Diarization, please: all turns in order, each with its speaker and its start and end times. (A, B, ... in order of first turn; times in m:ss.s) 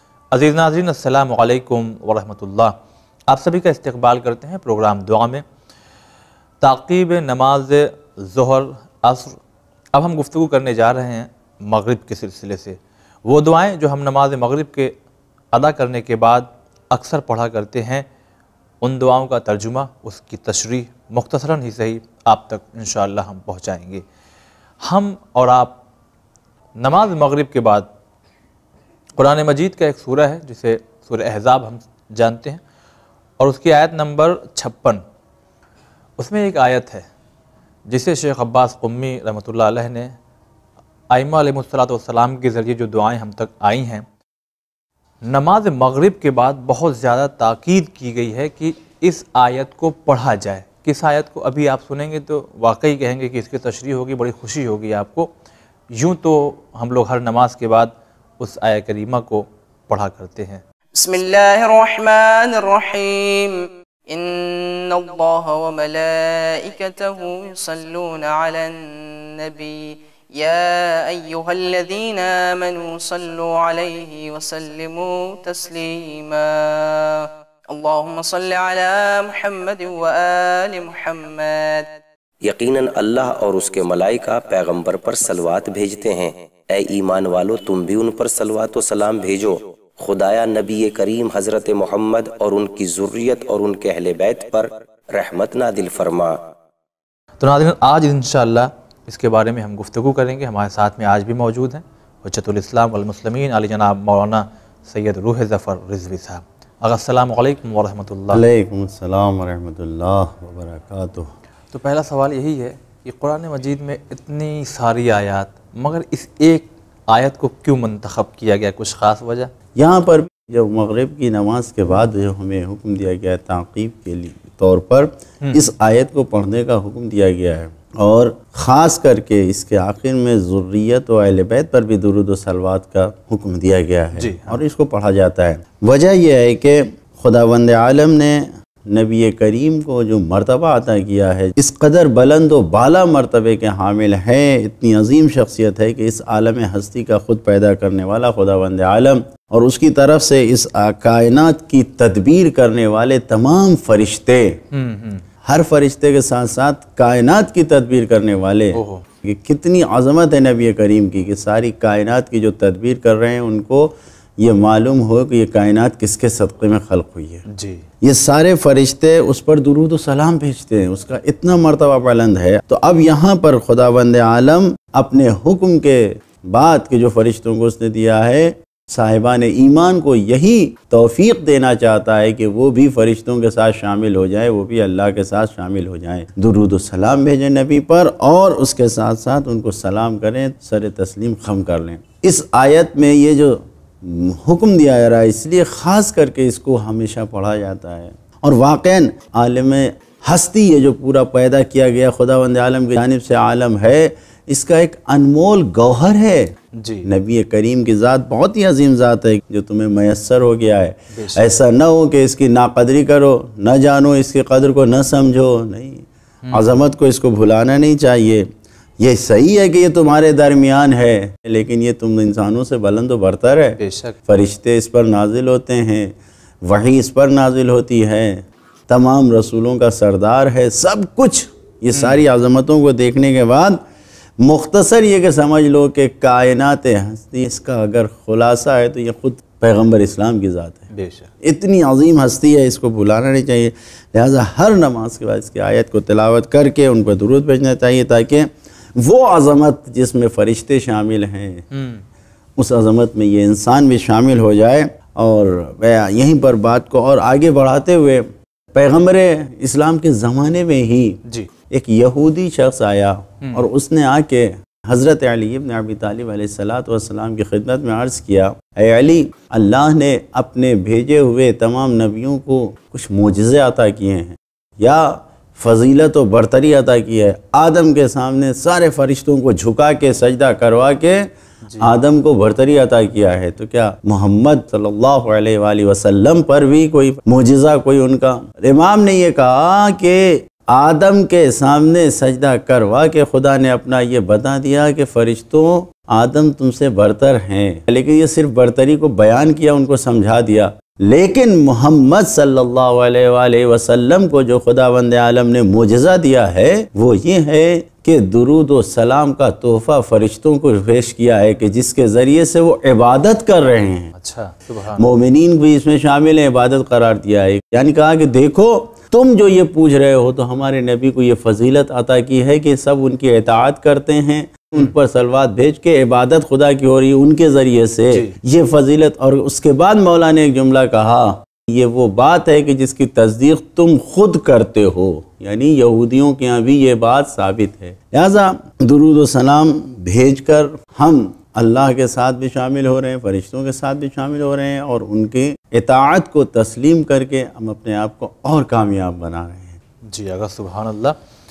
0:00.3-0:02.7 A
0:03.3-0:05.4 A
0:06.6-0:09.4 A
0:09.9-0:15.0 A
0:15.5-0:18.1 A
0:18.8-0:24.0 A
0:24.8-0:25.8 A
0:26.8-0:27.9 A
0:29.2-0:32.6 A
0:33.4-0:35.0 A
0:36.2-0:37.1 A
0:37.9-0:40.2 A
0:41.1-0:44.0 A
0:45.2-0:55.3 A
0:55.9-1:00.6 A
1:01.0-1:21.8 B
1:22.4-1:36.4 C
1:37.4-1:48.4 A
1:48.3-1:51.3 D
1:51.7-1:59.5 A
1:59.7-2:34.6 D
2:05.4-2:05.6 A
2:14.2-2:14.6 A
2:34.7-2:35.2 A
2:35.4-2:47.4 D
2:38.7-2:39.0 A
2:47.5-2:47.8 A
2:48.0-3:26.5 D
3:26.8-3:27.1 A
3:27.0-3:38.5 D
3:31.1-3:31.6 A
3:36.4-3:36.7 A
3:39.0-3:53.8 D
3:43.8-3:44.2 A
3:51.9-3:52.2 A
3:54.4-4:00.9 D
4:00.9-4:01.3 A
4:01.4-4:11.6 D
4:11.7-4:12.0 A
4:12.6-4:21.2 D
4:21.2-4:21.5 A
4:21.7-4:41.3 D
4:23.4-4:23.7 A
4:41.6-4:41.9 A
4:41.8-5:14.1 D
5:14.1-5:15.1 A
5:15.0-5:49.8 D
5:28.1-5:28.4 A
5:50.0-5:51.2 A